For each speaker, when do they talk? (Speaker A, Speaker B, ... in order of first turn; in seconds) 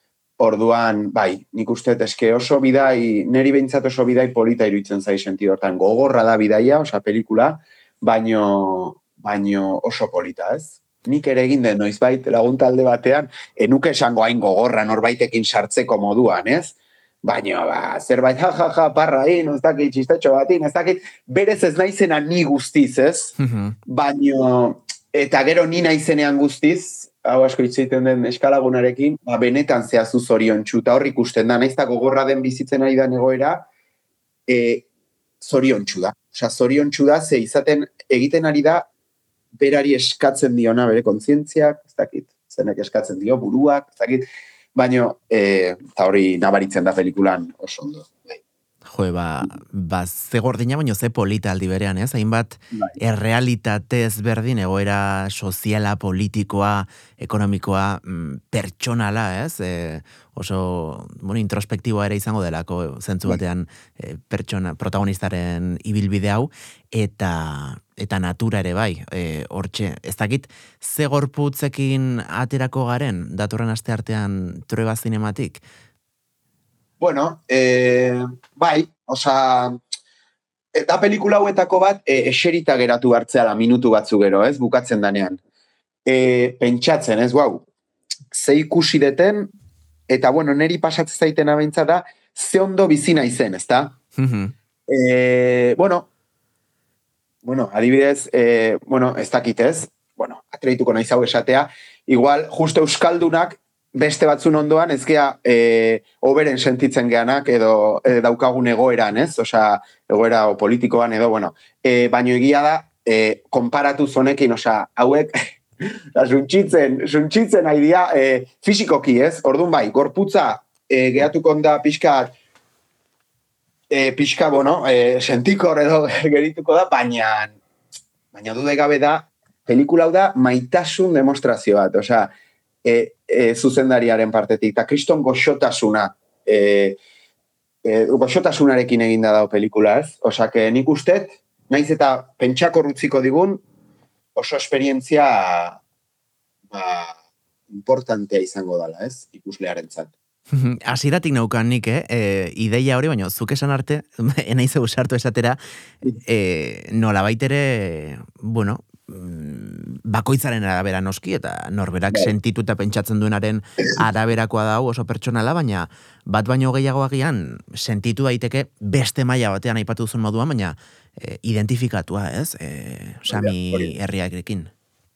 Speaker A: 0.4-23.4, 23.9-33.7, 34.5-34.9, 35.4-38.9, 39.5-48.4, 77.0-79.8, 80.7-85.4, 86.0-87.7, 88.3-89.5, 90.1-94.0, 94.9-96.1, 97.4-122.3, 123.9-127.6, 128.3-132.3, 132.8-137.0, 137.8-143.6, 144.3-145.8, 146.7-147.2, 147.7-150.1, 173.3-173.9
Speaker B: 23.4-23.8, 48.9-75.6, 94.2-94.5, 150.5-155.6, 156.2-174.7